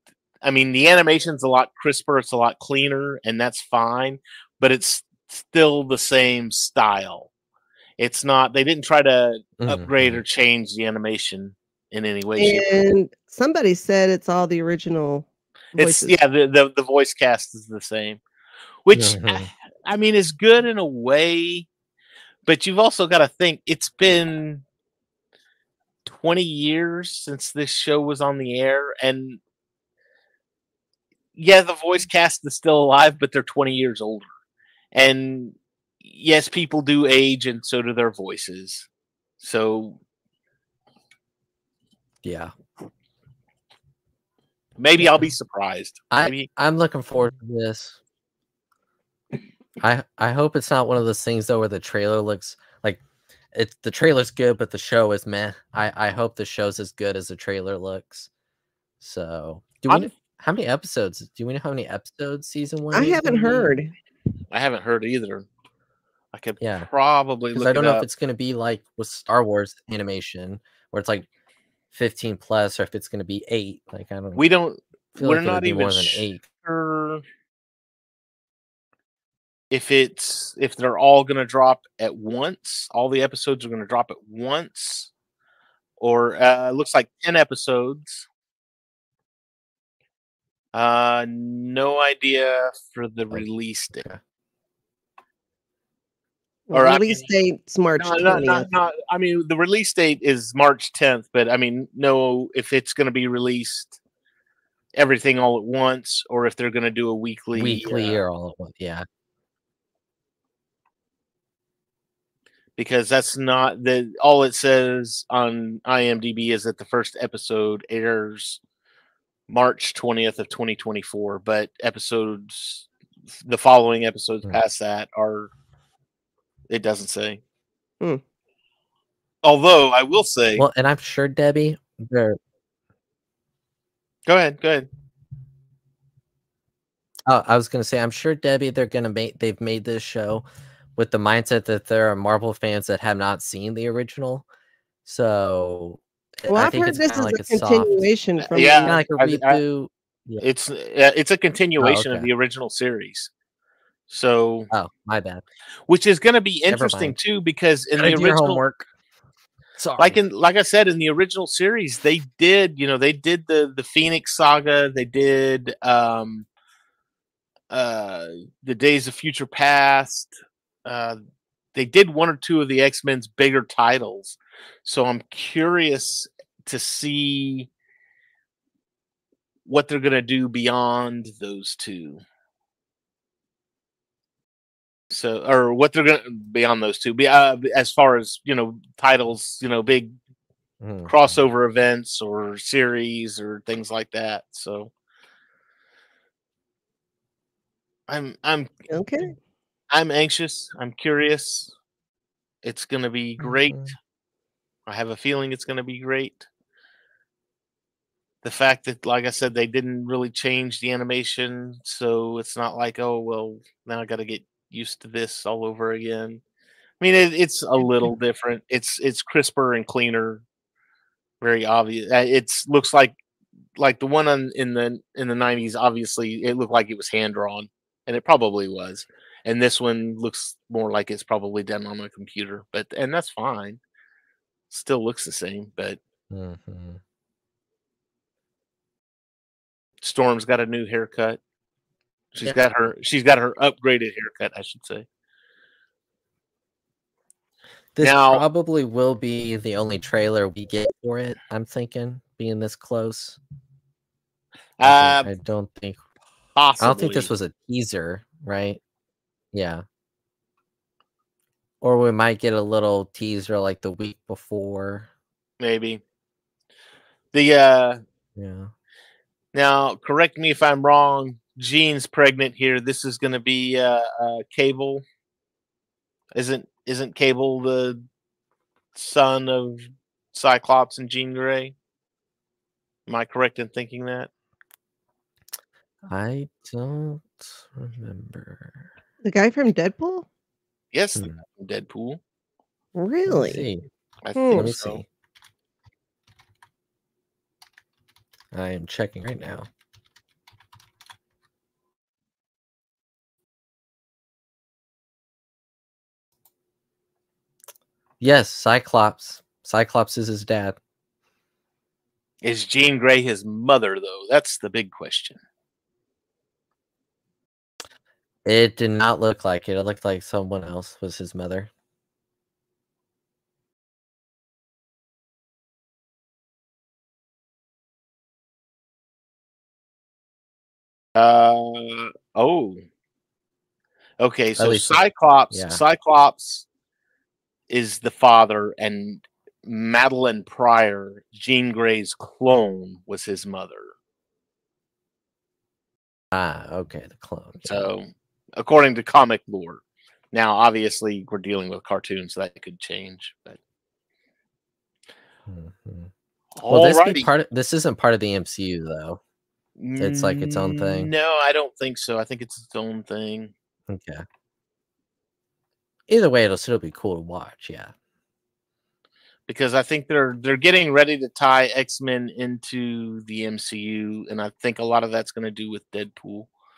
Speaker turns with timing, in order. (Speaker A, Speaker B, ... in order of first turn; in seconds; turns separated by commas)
Speaker A: 0.4-7.3, Speaker A: 8.0-12.9, Speaker B: 9.6-10.2, Speaker C: 12.4-16.1, Speaker A: 15.8-18.2, Speaker A: 18.8-21.7, Speaker B: 18.9-19.5, Speaker A: 22.4-24.6, Speaker A: 26.1-29.4, Speaker A: 31.4-34.3, Speaker A: 34.9-38.9, Speaker A: 39.4-40.0, Speaker B: 42.2-42.5, Speaker A: 44.8-46.5, Speaker B: 45.0-45.3, Speaker B: 46.1-48.0, Speaker B: 49.8-53.0, Speaker B: 53.5-58.3, Speaker B: 59.0-63.7, Speaker C: 62.9-63.9, Speaker A: 64.5-65.5, Speaker A: 66.3-68.0, Speaker B: 66.6-66.9, Speaker B: 67.5-71.3, Speaker B: 71.9-74.4, Speaker A: 74.3-77.2, Speaker B: 75.1-76.5, Speaker A: 79.7-85.1, Speaker A: 86.0-88.2, Speaker A: 90.7-94.0, Speaker C: 96.7-98.7, Speaker A: 96.7-97.2, Speaker A: 98.0-104.0, Speaker A: 105.0-108.2, Speaker B: 107.5-109.0, Speaker A: 112.8-118.6, Speaker A: 119.5-122.9, Speaker A: 123.4-125.5, Speaker A: 126.7-127.4, Speaker A: 129.4-130.6, Speaker B: 130.6-132.4, Speaker A: 134.3-134.9, Speaker B: 137.3-140.4, Speaker B: 141.0-144.5, Speaker B: 145.1-148.0, Speaker C: 146.5-149.0, Speaker A: 148.5-149.6, Speaker B: 148.7-150.4, Speaker A: 150.4-153.3, Speaker B: 151.8-152.3, Speaker A: 154.1-154.7, Speaker B: 154.7-155.4, Speaker A: 155.9-158.6, Speaker B: 156.7-157.2, Speaker B: 158.0-158.9, Speaker B: 159.8-160.2, Speaker A: 160.0-166.5, Speaker A: 167.7-170.3, Speaker A: 170.8-171.2, Speaker A: 171.7-177.7, Speaker A: 179.7-182.2, Speaker A: 185.1-190.1, Speaker B: 190.8-191.3, Speaker A: 191.1-194.9, Speaker A: 198.1-198.7, Speaker C: 198.9-199.3, Speaker A: 199.9-201.7, Speaker A: 202.6-203.9, Speaker B: 203.4-203.9, Speaker A: 204.9-206.4, Speaker A: 208.4-216.4, Speaker A: 217.0-220.4, Speaker A: 221.4-223.2, Speaker A: 223.8-233.8, Speaker A: 234.7-236.0, Speaker B: 236.3-237.0, Speaker A: 240.0-241.4, Speaker A: 242.3-245.1, Speaker B: 247.9-253.4, Speaker A: 248.0-248.4, Speaker A: 254.8-255.3, Speaker B: 254.8-256.0, Speaker A: 256.6-257.3, Speaker B: 256.8-258.8, Speaker B: 259.5-259.8, Speaker B: 261.8-265.1, Speaker A: 265.6-266.0, Speaker A: 267.3-268.0, Speaker B: 268.4-268.7, Speaker A: 269.5-275.0, Speaker A: 276.3-278.0, Speaker A: 278.9-281.7, Speaker A: 283.1-284.3, Speaker B: 286.1-288.9, Speaker C: 289.2-290.2, Speaker A: 290.9-292.2, Speaker B: 291.1-291.4, Speaker C: 292.9-293.7, Speaker B: 293.2-293.8, Speaker A: 294.2-295.0, Speaker C: 294.4-294.9, Speaker B: 294.5-295.0, Speaker B: 298.5-299.7, Speaker B: 308.2-310.8, Speaker A: 312.4-315.4, Speaker B: 318.4-321.7, Speaker A: 331.1-332.8, Speaker A: 334.2-336.6, Speaker B: 334.6-335.8, Speaker A: 337.7-343.9, Speaker B: 346.3-347.9, Speaker A: 347.6-349.8, Speaker A: 350.3-353.6, Speaker B: 355.5-356.1, Speaker A: 356.6-357.3, Speaker B: 356.7-359.2, Speaker A: 359.8-363.5, Speaker B: 360.0-361.1, Speaker B: 363.9-364.2, Speaker B: 366.1-367.9, Speaker A: 369.5-376.5